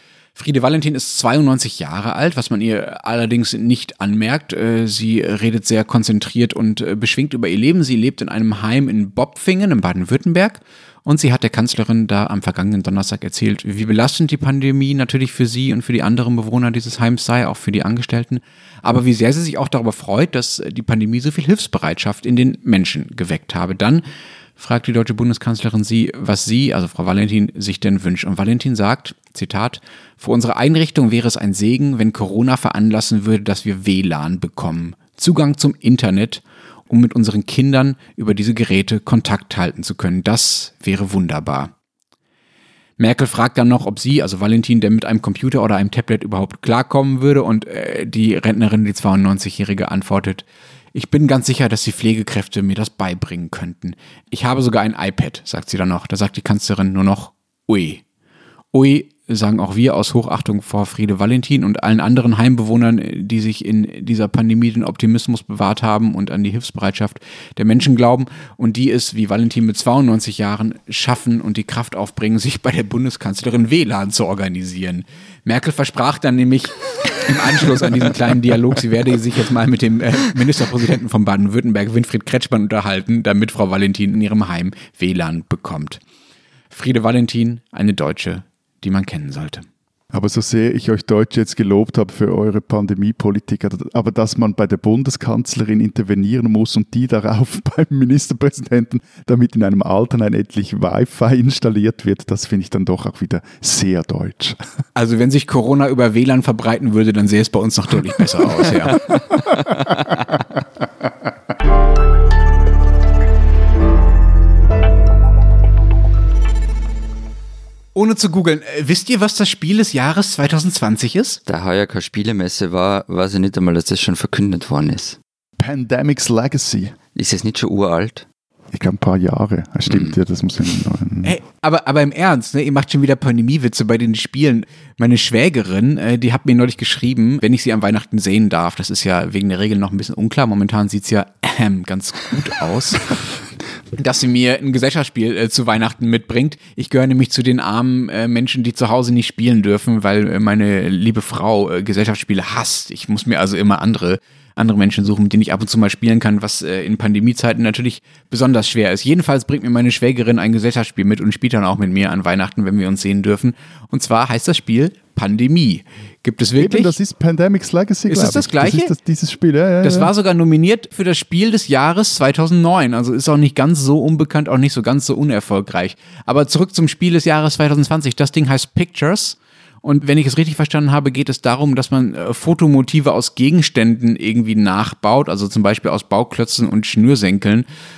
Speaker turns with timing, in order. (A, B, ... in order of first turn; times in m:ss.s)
0:00.4-0:24.0 A
0:24.6-0:41.7 A
0:43.0-0:58.0 A
0:58.7-1:26.0 A
1:26.7-1:29.6 A
1:30.1-1:44.6 B
1:44.9-1:49.2 A
1:57.9-2:01.4 A
2:01.5-2:05.2 C
2:05.6-2:07.0 B
2:07.2-2:08.2 C
2:08.7-2:11.4 B
2:09.9-2:10.1 C
2:11.2-2:23.4 A
2:23.9-2:47.0 A
2:46.6-2:50.1 B
2:48.1-2:48.9 A
2:49.8-3:07.6 A